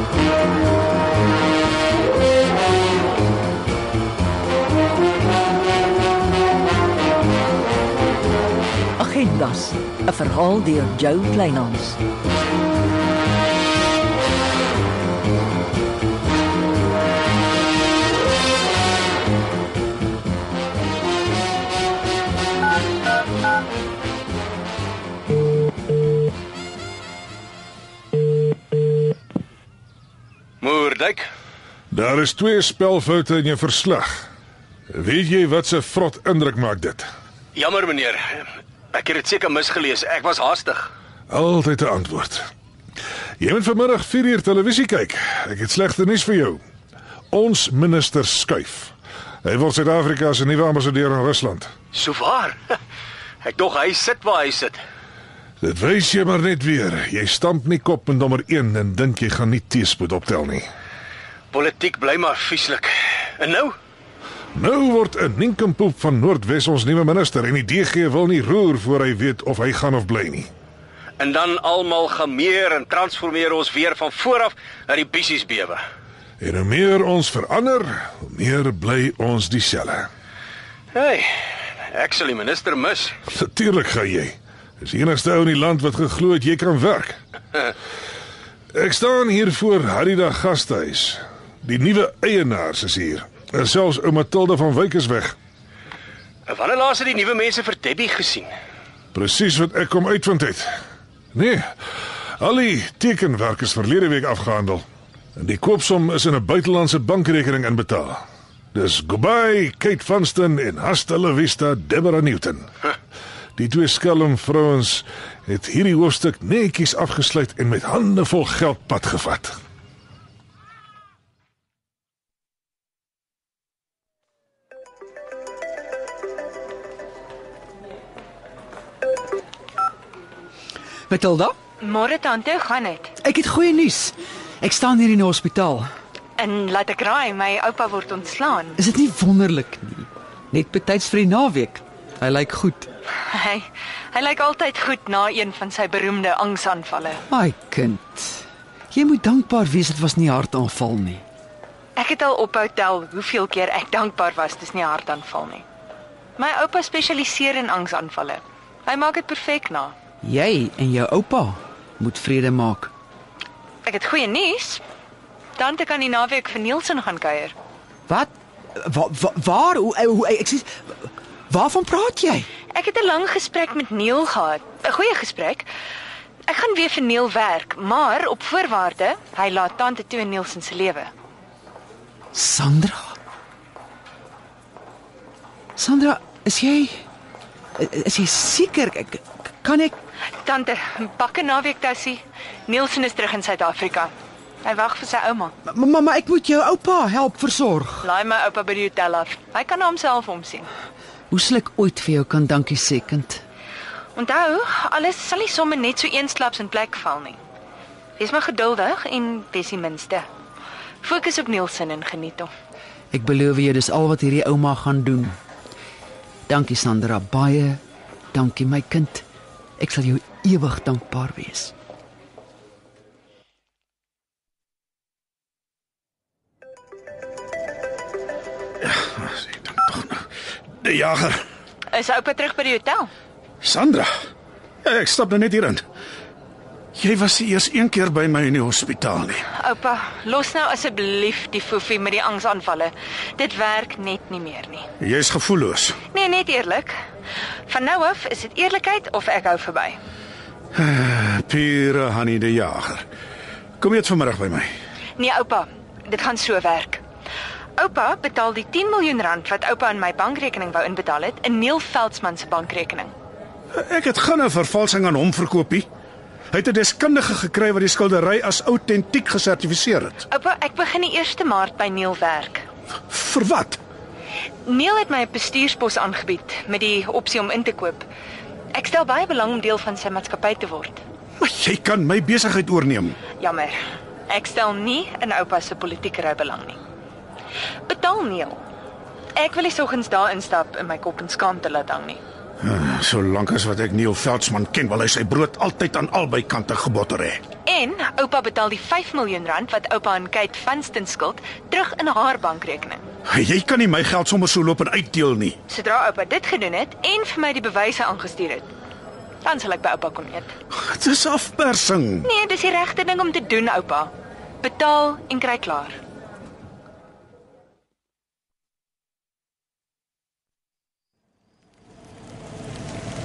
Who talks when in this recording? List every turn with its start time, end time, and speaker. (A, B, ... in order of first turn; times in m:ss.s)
0:09.0-0:12.0 A
0:30.6-0:31.2 B
0:31.9-0:34.2 C
0:34.9-0:37.1 C
0:37.5-0:40.9 B
0:41.3-0:42.4 C
0:43.4-0:46.6 C
0:47.3-0:48.9 C
0:49.4-0:51.7 C
0:51.9-0:52.6 B
0:53.4-0:54.8 B
0:55.6-1:00.7 C
1:01.5-1:03.7 B
1:04.5-1:10.5 C
1:11.2-1:15.8 B
1:16.4-1:20.1 C
1:20.9-1:21.3 B
1:21.9-1:23.2 B
1:23.2-1:27.2 C
1:28.7-1:35.3 C
1:36.4-1:38.5 B
1:39.1-1:40.6 C
1:41.3-1:41.6 C
1:42.4-1:44.8 C
1:45.4-1:48.2 C
1:48.7-1:52.7 C
1:53.6-1:59.5 C
2:11.1-2:11.5 D
2:11.8-2:13.1 E
2:13.2-2:15.9 D
2:16.4-2:18.8 E
2:18.8-2:22.9 D
2:23.3-2:27.2 E
2:27.3-2:31.2 D
2:32.0-2:35.6 E
2:36.4-2:39.9 E
2:40.2-2:42.9 D
2:43.8-2:44.8 E
2:45.6-2:47.5 E
2:48.1-2:50.8 D
2:51.5-2:52.5 D
2:52.7-2:55.7 E
2:56.5-3:01.1 E
3:02.3-3:03.1 D
3:05.8-3:07.0 D
3:07.8-3:10.0 D
3:10.4-3:14.1 E
3:14.6-3:15.5 E
3:15.6-3:18.1 D
3:18.0-3:20.7 E
3:21.3-3:23.4 D
3:24.1-3:27.4 E
3:28.2-3:30.2 E
3:31.0-3:32.5 E
3:33.1-3:35.4 D
3:36.5-3:37.8 D
3:38.3-3:39.2 D
3:39.8-3:41.7 D
3:48.8-3:50.2 F
3:50.8-3:51.4 F
3:51.9-3:53.1 E
3:53.6-3:54.1 F
3:54.8-3:55.8 F
3:57.0-3:59.4 F
3:59.5-4:04.8 E
4:05.0-4:06.0 F
4:06.1-4:07.0 E
4:07.7-4:10.0 E
4:10.7-4:13.0 F
4:13.8-4:14.7 F
4:15.2-4:17.0 E
4:17.8-4:23.1 E
4:23.7-4:25.9 F
4:26.5-4:30.2 F
4:30.3-4:32.6 E
4:33.1-4:33.8 F
4:34.6-4:38.0 E
4:38.7-4:41.0 E
4:41.4-4:43.2 F
4:43.4-4:43.8 E
4:44.3-4:46.8 E
4:47.9-4:48.6 E
4:49.3-4:52.2 E
4:52.6-4:57.4 F
4:57.6-5:03.0 E
5:03.2-5:05.6 F
5:05.7-5:08.7 E
5:09.4-5:10.5 E
5:10.7-5:12.3 F
5:12.2-5:14.1 E
5:14.6-5:16.0 E